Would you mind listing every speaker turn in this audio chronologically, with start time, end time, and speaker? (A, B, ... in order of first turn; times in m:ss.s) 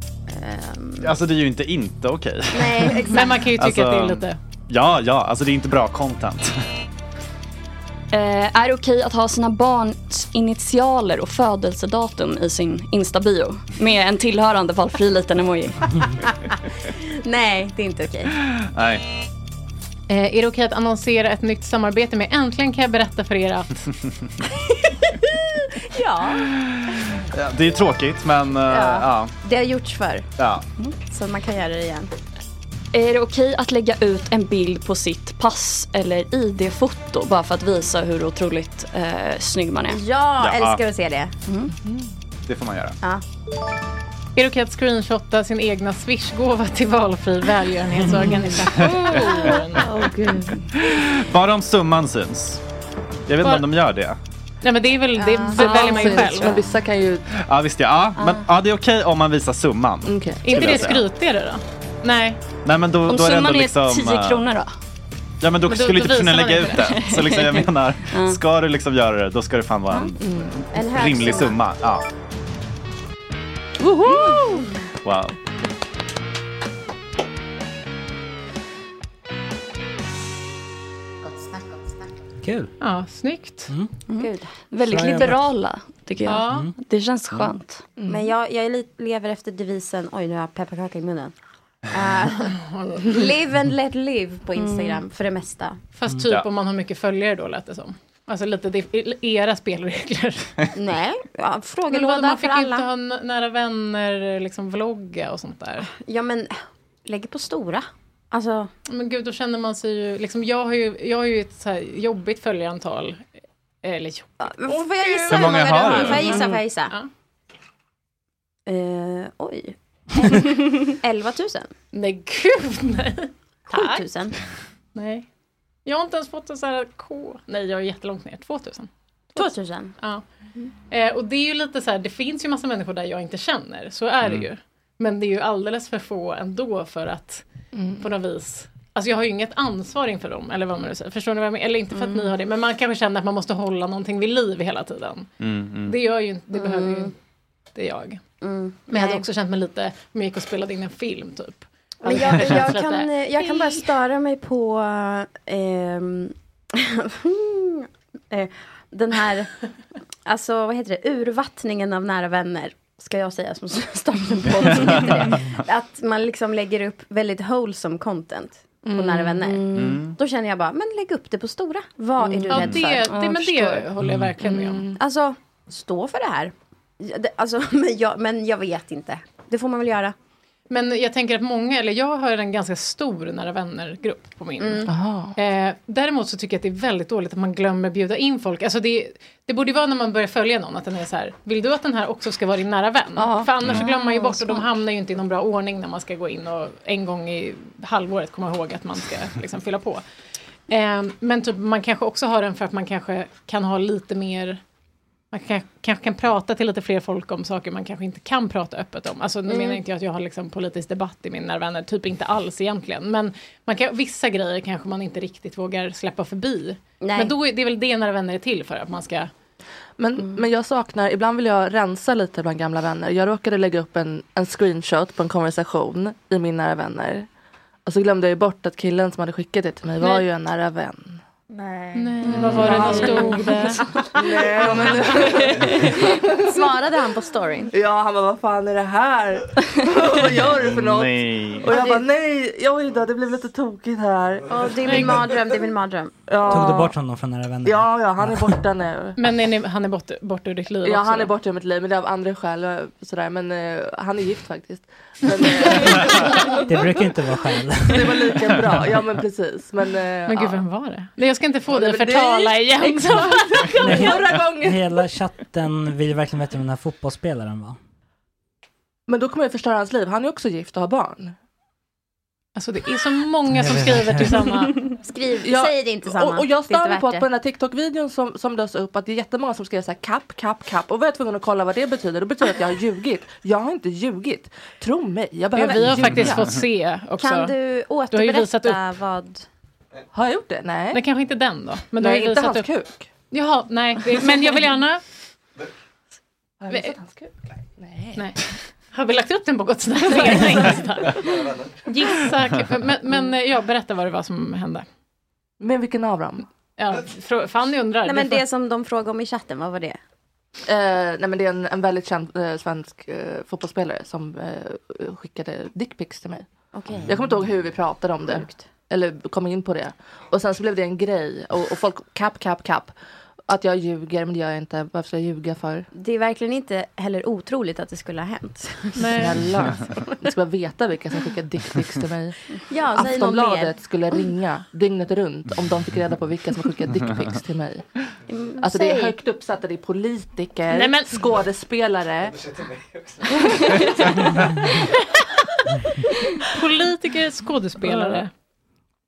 0:00.3-0:01.1 A
0:01.0-0:06.5 B
0:02.5-0:03.4 A
0:03.1-0:04.4 C
0:08.1-0:15.8 D
0:17.2-0:18.3 A
0:18.7-0:19.0 B
0:20.1-0:23.8 C
0:25.9-0:26.4 A
0:27.3-0:29.3 B
0:28.7-0:30.2 A
0:30.4-0:30.6 B
0:31.1-0:32.1 A
0:32.9-0:40.0 D
0:39.9-0:41.3 A
0:40.4-0:40.8 B
0:42.5-0:43.0 B
0:44.4-0:49.9 C
0:48.9-0:49.6 B
0:49.0-0:50.6 E
0:50.8-0:52.6 B
0:53.3-0:54.2 B
0:54.6-0:56.6 C
0:55.2-0:56.4 A
0:55.5-0:57.2 E
0:57.4-1:01.1 B
0:58.2-0:58.4 D
1:00.0-1:00.5 E
1:00.4-1:02.4 C
1:02.6-1:04.4 B
1:03.0-1:04.7 D
1:05.4-1:10.2 B
1:05.7-1:07.0 C
1:06.8-1:08.4 D
1:10.2-1:10.6 E
1:10.7-1:11.6 A
1:10.8-1:12.0 B
1:13.8-1:14.6 E
1:15.0-1:15.3 B
1:22.4-1:22.7 F
1:22.8-1:23.7 C
1:24.1-1:27.8 D
1:24.2-1:24.5 A
1:24.9-1:25.4 F
1:26.2-1:26.7 C
1:26.4-1:26.7 F
1:28.0-1:28.3 E
1:28.1-1:31.3 A
1:31.9-1:32.5 A
1:32.4-1:33.1 C
1:33.0-1:35.8 A
1:34.6-1:35.0 D
1:36.0-1:40.6 C
1:40.8-1:42.8 A
1:41.9-1:45.8 C
1:45.9-1:48.7 A
1:48.9-1:53.3 C
1:53.8-1:54.3 C
1:54.4-1:56.9 A
1:54.7-1:55.5 E
1:55.3-1:56.2 B
1:56.1-1:57.1 C
1:56.2-1:56.6 D
1:58.7-2:01.7 A
2:01.9-2:04.0 C
2:03.7-2:04.3 A
2:04.9-2:05.3 C
2:05.8-2:10.2 C
2:09.4-2:09.9 A
2:10.9-2:17.4 C
2:17.7-2:18.0 E
2:18.0-2:25.3 C
2:25.4-2:25.9 B
2:25.8-2:27.1 C
2:26.5-2:27.1 A
2:27.7-2:28.2 C
2:28.4-2:29.2 A
2:28.9-2:33.9 C
2:32.0-2:39.5 A
2:40.2-2:53.2 A
2:44.7-2:45.1 B
2:48.8-2:49.4 E
2:49.5-2:50.0 D
2:49.7-2:50.2 B
2:52.5-2:54.9 C
2:53.1-2:53.7 D
2:54.0-2:54.3 F
2:54.4-2:55.0 E
2:55.0-3:00.1 A
3:00.7-3:20.0 C
3:04.6-3:04.9 A
3:04.9-3:05.4 E
3:13.2-3:14.6 E
3:13.8-3:14.2 A
3:20.7-3:24.6 C
3:25.3-3:39.3 C
3:29.5-3:29.8 A
3:37.0-3:37.3 A
3:40.0-3:47.3 E
3:47.8-3:53.1 E
3:52.0-3:53.8 C
3:52.2-3:53.3 D
3:52.5-3:53.5 A
3:54.2-3:56.3 E
3:55.3-3:57.7 A
3:57.7-4:04.5 E
4:00.6-4:01.7 B
4:01.7-4:02.0 A
4:04.5-4:06.1 A
4:04.8-4:05.3 C
4:06.3-4:06.9 E
4:06.5-4:08.5 F
4:07.6-4:09.2 E
4:09.2-4:11.3 C
4:10.8-4:17.0 E
4:16.2-4:18.8 F
4:17.8-4:20.6 E
4:20.3-4:24.1 C
4:21.7-4:25.0 E
4:23.8-4:27.8 F
4:29.1-4:31.3 E
4:32.6-4:34.9 C
4:33.5-4:34.4 F
4:34.9-4:37.2 A
4:35.4-4:46.5 E
4:45.6-4:47.5 C
4:45.6-4:46.3 A
4:47.2-4:49.4 A
4:48.1-4:48.8 C
4:50.1-4:51.0 E
4:50.9-4:52.7 C
4:52.0-4:53.1 E
4:53.3-4:55.0 C
4:56.6-4:58.3 E
4:58.9-5:01.3 C
5:00.1-5:00.8 E
5:01.9-5:04.8 C
5:05.6-5:06.4 E
5:06.8-5:08.4 C
5:08.0-5:10.0 A
5:10.7-5:16.5 E
5:16.7-5:17.1 A
5:17.0-5:22.9 E
5:18.3-5:18.6 A
5:23.5-5:25.9 E
5:26.0-5:29.2 A
5:28.9-5:29.4 C
5:29.1-5:32.4 E
5:32.7-5:33.7 A
5:32.9-5:37.8 E
5:38.3-5:39.2 A
5:38.6-5:42.4 E
5:40.7-5:41.2 C
5:46.5-5:48.3 C